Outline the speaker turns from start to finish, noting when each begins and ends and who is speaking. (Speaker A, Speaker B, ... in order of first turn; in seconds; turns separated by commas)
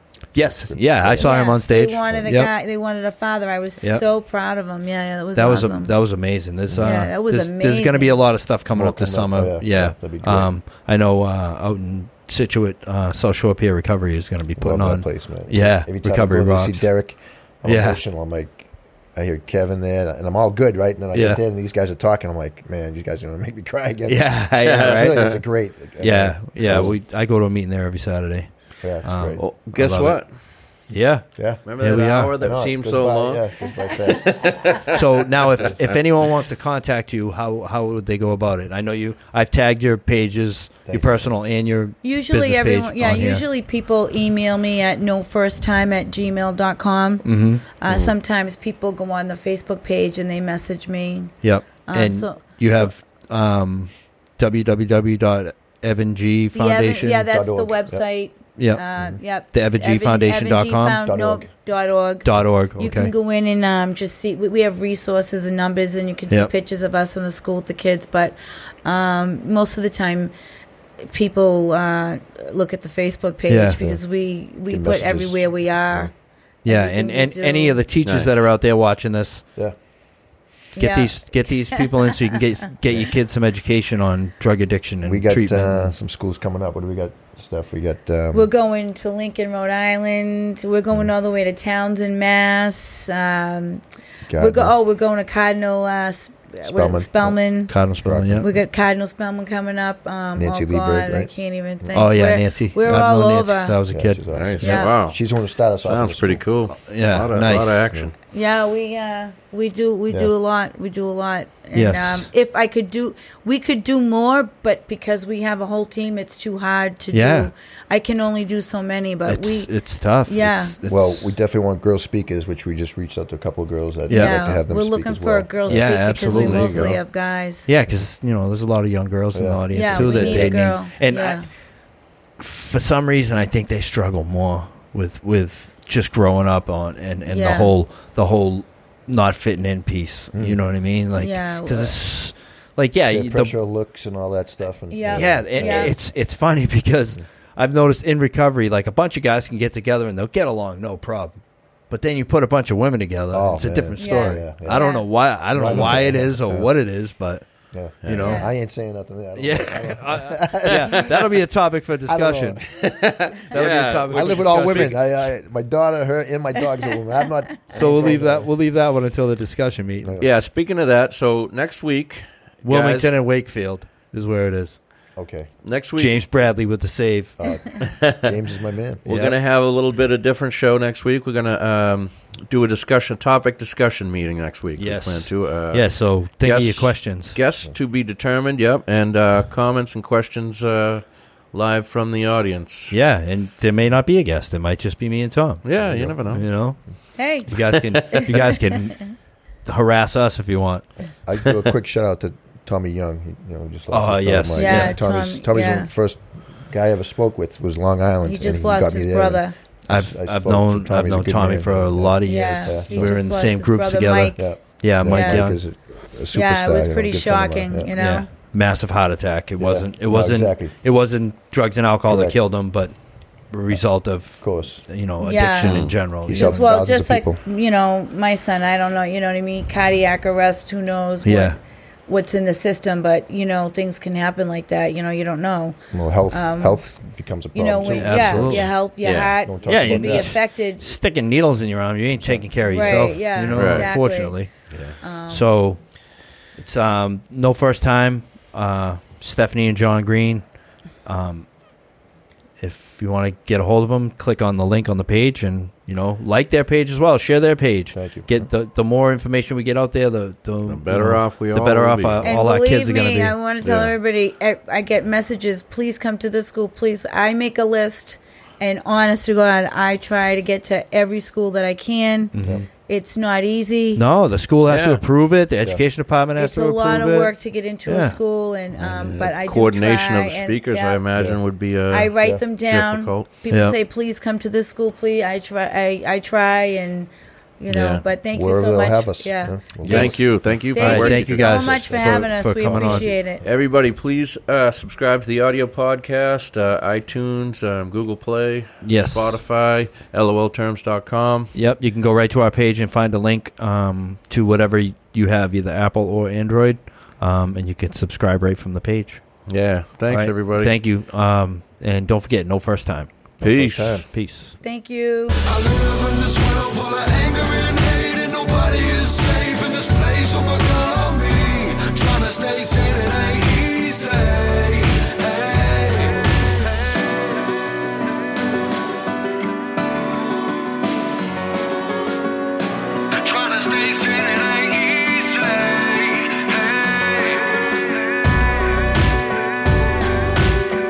Speaker A: 0.3-2.5, Speaker B: 0.7-1.3, Speaker C: 1.2-5.9, Speaker A: 5.4-16.9, Speaker B: 6.7-7.0, Speaker C: 6.8-8.2, Speaker B: 8.7-10.5, Speaker B: 14.6-27.0, Speaker A: 17.6-18.0, Speaker A: 21.1-21.4, Speaker A: 24.1-25.4, Speaker D: 24.6-25.4, Speaker A: 26.0-30.2, Speaker B: 28.8-29.5, Speaker D: 29.4-30.3, Speaker A: 30.9-32.6, Speaker B: 31.4-31.6, Speaker D: 31.6-35.0, Speaker B: 32.4-34.9, Speaker A: 34.9-43.4, Speaker B: 35.5-35.9, Speaker D: 35.6-36.0, Speaker B: 40.9-41.3, Speaker C: 42.0-52.9, Speaker A: 47.2-47.6, Speaker D: 47.9-48.1, Speaker A: 51.4-57.2, Speaker C: 56.5-70.3, Speaker B: 57.3-58.0, Speaker A: 58.6-58.8, Speaker A: 59.5-61.0, Speaker B: 61.1-61.5, Speaker A: 62.2-63.1, Speaker C: 71.0-76.1, Speaker A: 73.5-74.0, Speaker B: 74.7-76.1, Speaker C: 76.7-77.8, Speaker A: 76.7-79.5, Speaker D: 78.0-78.5, Speaker C: 80.8-81.9, Speaker A: 80.8-85.9, Speaker B: 85.0-88.5, Speaker C: 88.3-93.8, Speaker B: 94.3-94.7, Speaker C: 94.3-97.8, Speaker B: 96.6-98.6, Speaker A: 97.7-98.5, Speaker C: 98.4-103.8, Speaker B: 100.3-102.0, Speaker A: 101.9-104.8, Speaker B: 103.9-106.4, Speaker D: 104.3-105.2, Speaker C: 104.6-104.9, Speaker D: 105.8-108.2, Speaker A: 106.8-107.9, Speaker C: 108.3-119.7, Speaker A: 111.7-112.3, Speaker A: 117.1-117.5, Speaker A: 119.3-121.3, Speaker C: 120.3-120.8, Speaker B: 120.8-127.0, Speaker C: 124.1-127.7, Speaker A: 124.1-124.4, Speaker A: 125.7-127.0, Speaker A: 127.7-131.5, Speaker B: 129.3-130.8, Speaker C: 129.7-131.5, Speaker A: 132.4-143.5, Speaker C: 137.3-137.8, Speaker B: 140.3-140.6, Speaker C: 141.2-142.0, Speaker B: 143.1-145.9, Speaker C: 144.9-145.9, Speaker A: 145.1-157.5, Speaker B: 153.3-156.7, Speaker C: 154.0-155.1, Speaker B: 157.7-161.4, Speaker D: 158.0-158.3, Speaker A: 158.1-158.5, Speaker C: 158.1-158.5, Speaker A: 159.4-162.7, Speaker B: 162.1-162.6, Speaker D: 162.7-165.0, Speaker A: 163.5-165.2, Speaker B: 164.1-168.5, Speaker A: 167.7-170.1, Speaker B: 170.0-170.3, Speaker D: 170.2-173.2, Speaker A: 172.6-174.8, Speaker B: 175.2-175.5, Speaker D: 175.6-176.2, Speaker A: 176.0-177.8, Speaker B: 177.4-179.0, Speaker D: 177.8-178.3, Speaker D: 179.0-192.9, Speaker A: 179.1-179.4, Speaker A: 184.8-187.4, Speaker A: 192.9-195.7, Speaker D: 195.6-196.5, Speaker B: 195.8-196.2, Speaker A: 196.3-196.8, Speaker C: 197.2-197.5, Speaker A: 197.4-200.9, Speaker D: 197.6-198.3, Speaker C: 198.1-199.0, Speaker B: 201.2-213.1, Speaker A: 203.9-205.0, Speaker C: 204.5-205.9, Speaker C: 208.2-209.6, Speaker A: 209.9-215.6, Speaker C: 212.2-215.5, Speaker B: 214.4-217.9, Speaker C: 216.3-218.3, Speaker A: 217.9-222.9, Speaker B: 219.6-220.8, Speaker B: 222.1-222.4, Speaker A: 223.5-226.6, Speaker B: 224.4-224.8, Speaker C: 225.2-235.8, Speaker D: 225.6-226.0, Speaker B: 226.2-227.4, Speaker A: 231.2-231.6, Speaker B: 235.9-238.7, Speaker C: 236.3-236.9, Speaker C: 237.5-240.9, Speaker A: 237.8-238.7, Speaker D: 238.4-239.4, Speaker B: 239.4-240.4, Speaker A: 239.7-244.5, Speaker B: 242.2-243.2, Speaker C: 242.7-244.4, Speaker D: 243.5-243.9, Speaker D: 244.7-245.0, Speaker C: 245.0-245.5, Speaker A: 245.3-246.0, Speaker A: 246.5-250.5, Speaker A: 251.1-251.5, Speaker A: 252.6-263.9, Speaker B: 257.9-258.5, Speaker D: 260.6-262.3, Speaker C: 262.2-272.3, Speaker A: 272.3-272.7, Speaker C: 272.9-274.0, Speaker A: 274.0-277.3, Speaker D: 274.7-275.0, Speaker C: 276.4-281.0, Speaker A: 277.9-278.2, Speaker B: 278.8-279.2, Speaker D: 278.9-282.1, Speaker C: 281.9-293.4, Speaker D: 282.7-283.3, Speaker A: 283.5-283.8, Speaker D: 287.7-288.0, Speaker B: 288.3-290.4, Speaker D: 289.8-291.8, Speaker A: 289.9-290.2, Speaker A: 290.8-293.1, Speaker B: 291.0-293.2, Speaker D: 293.4-301.5, Speaker A: 298.8-299.4, Speaker A: 301.5-309.3, Speaker D: 309.5-310.7, Speaker A: 310.1-313.1, Speaker D: 313.4-314.1, Speaker B: 313.4-314.1, Speaker A: 314.0-314.6, Speaker C: 314.6-315.4, Speaker E: 315.5-326.2, Speaker E: 333.1-337.8